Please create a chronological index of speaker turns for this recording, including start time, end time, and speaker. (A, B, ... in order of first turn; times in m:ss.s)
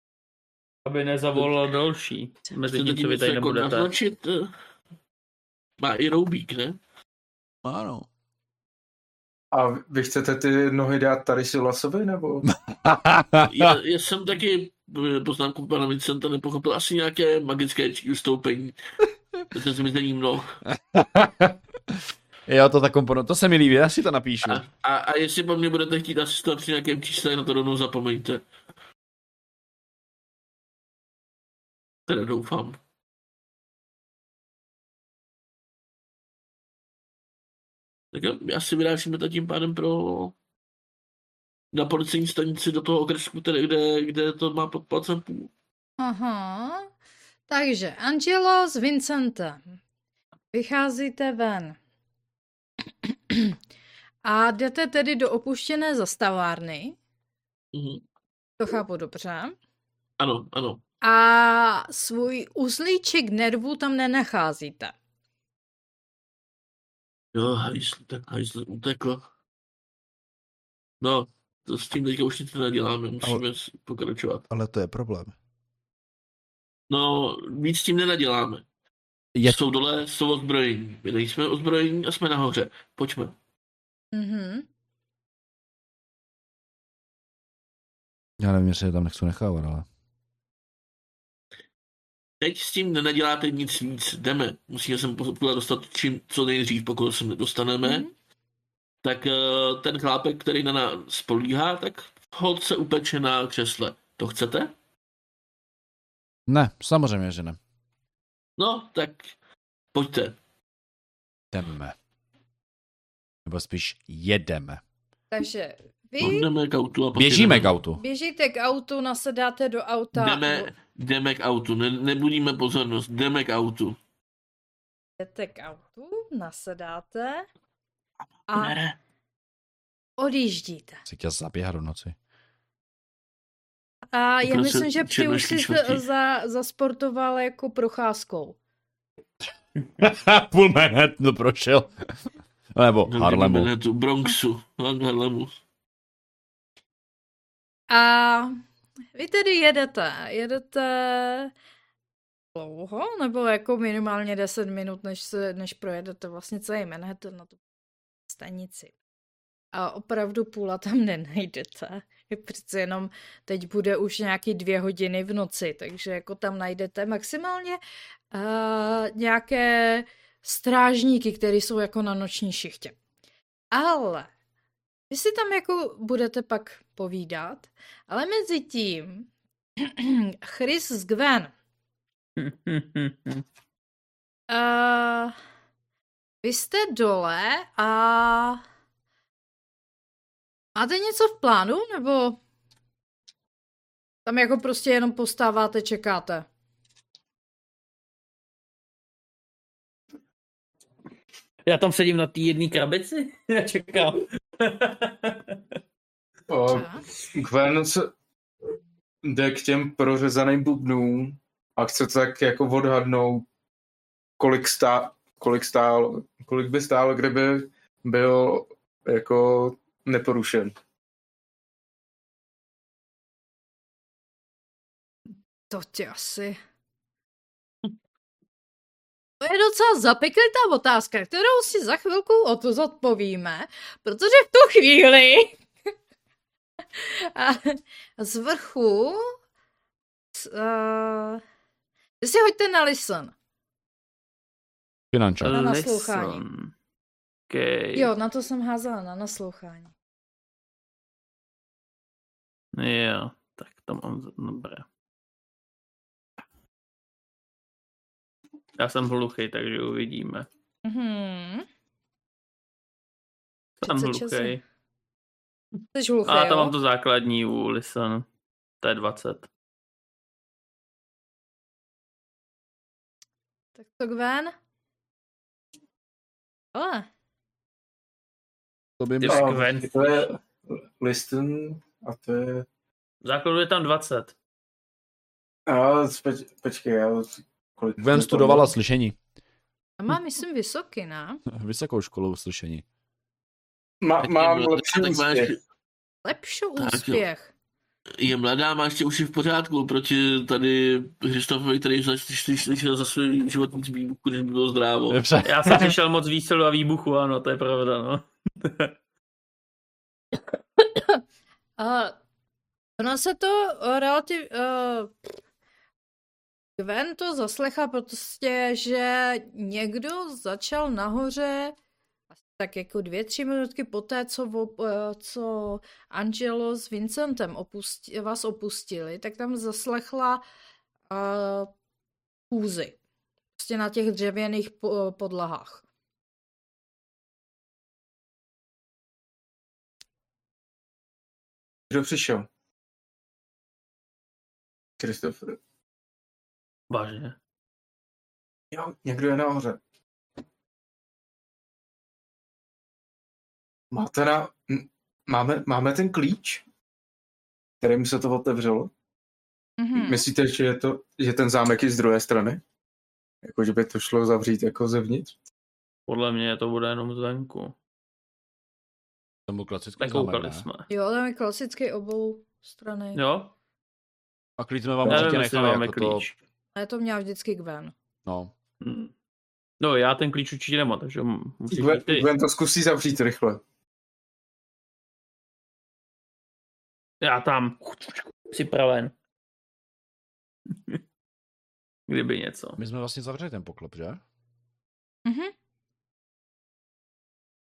0:00.9-0:03.9 A
0:02.7-0:04.5 B
0:05.8-0:06.8 B
0:07.6-0:08.1 C
0:09.5-0:12.5 D
0:12.4-0:13.7 C
0:13.4-0:18.8 B
0:19.5-0:20.6 B
0:20.7-0:24.6 C
0:24.4-0:28.4 B
0:32.1-0:32.8 B
0:38.1-0:40.4 B
0:41.7-0:45.5 B
0:46.0-0:46.9 E
0:47.5-0:49.6 E
0:50.5-0:51.8 E
0:53.3-0:53.6 E
0:54.2-0:57.0 E
0:57.7-0:58.0 B
0:58.6-0:59.6 E
1:00.2-1:00.8 B
1:01.0-1:05.0 E
1:07.3-1:09.2 B
1:11.0-1:14.4 B
1:14.5-1:15.3 C
1:16.9-1:18.6 B
1:19.4-1:23.4 B
1:24.1-1:24.7 E
1:28.4-1:29.9 C
1:32.4-1:38.1 B
1:37.8-1:38.1 E
1:39.0-1:44.7 B
1:46.5-1:47.6 C
1:48.6-1:49.3 B
1:49.9-1:50.4 B
1:51.5-1:52.0 C
1:53.4-1:54.8 C
1:55.3-1:56.4 E
1:56.2-1:57.7 B
1:57.2-1:58.0 C
1:58.0-2:00.7 E
2:00.1-2:04.0 B
2:05.2-2:07.4 E
2:08.5-2:08.8 E
2:08.6-2:09.0 B
2:10.2-2:11.0 E
2:11.1-2:12.1 C
2:14.1-2:18.6 E
2:14.4-2:16.0 B
2:20.0-2:22.1 C
2:22.7-2:23.7 C
2:23.1-2:25.6 B
2:27.9-2:28.5 E
2:29.1-2:31.5 E
2:32.6-2:37.6 E
2:38.3-2:38.9 E
2:39.7-2:47.8 E
2:48.3-2:53.0 E
2:53.7-2:54.3 E
2:55.1-2:59.3 E
2:59.8-3:01.5 E
3:02.4-3:03.4 A
3:04.5-3:05.4 E
3:06.4-3:08.6 E
3:10.8-3:12.4 E
3:14.3-3:16.4 E
3:21.7-3:25.6 A
3:26.5-3:28.1 D
3:26.7-3:27.0 E
3:29.2-3:33.4 D
3:34.4-3:40.7 D
3:45.7-3:46.6 E
3:49.4-3:55.6 E
3:57.0-3:59.2 E
4:00.4-4:01.4 E
4:02.2-4:03.3 E
4:05.1-4:05.6 C
4:05.4-4:06.7 A
4:05.5-4:06.4 E
4:07.5-4:08.1 A
4:07.9-4:09.9 E
4:12.7-4:14.9 A
4:18.8-4:20.5 A
4:20.8-4:21.7 E
4:23.8-4:24.6 A
4:23.8-4:24.6 E
4:25.9-4:26.8 E
4:26.3-4:28.2 A
4:28.8-4:29.5 A
4:33.8-4:34.5 E
4:36.7-4:37.1 E
4:39.0-4:39.5 C
4:39.2-4:40.1 A
4:39.3-4:42.7 D
4:43.2-4:44.4 A
4:45.7-4:48.7 D
4:48.0-4:49.2 C
4:50.0-4:51.4 E
4:51.5-4:52.8 C
4:54.0-4:55.5 D
4:54.2-4:55.6 B
4:56.2-4:57.5 E
4:56.8-4:57.2 B
4:58.2-5:05.2 B
5:05.1-5:05.9 C
5:05.4-5:08.9 A
5:11.8-5:12.1 E
5:13.0-5:15.1 E
5:16.8-5:21.8 E
5:22.6-5:30.4 E
5:31.1-5:31.7 E
5:32.5-5:33.0 E
5:33.6-5:35.8 E
5:41.9-5:42.5 D
5:45.0-5:45.6 D
5:46.9-5:47.4 A
5:48.7-5:49.8 D
5:53.9-5:56.6 D
5:57.8-5:58.9 D
5:59.8-6:00.3 E
6:00.0-6:02.6 D
6:03.4-6:05.3 D
6:06.1-6:07.8 A
6:09.5-6:10.7 C
6:10.0-6:10.8 A
6:10.9-6:13.2 E
6:13.1-6:13.5 A
6:14.6-6:16.2 C
6:15.1-6:16.4 A
6:15.1-6:15.3 D
6:16.8-6:17.9 E
6:18.3-6:18.5 C
6:18.8-6:19.1 A
6:19.8-6:22.3 A
6:21.7-6:23.6 D
6:27.2-6:29.1 A
6:30.7-6:31.0 A
6:32.1-6:32.8 A
6:32.8-6:34.2 C
6:35.3-6:35.5 E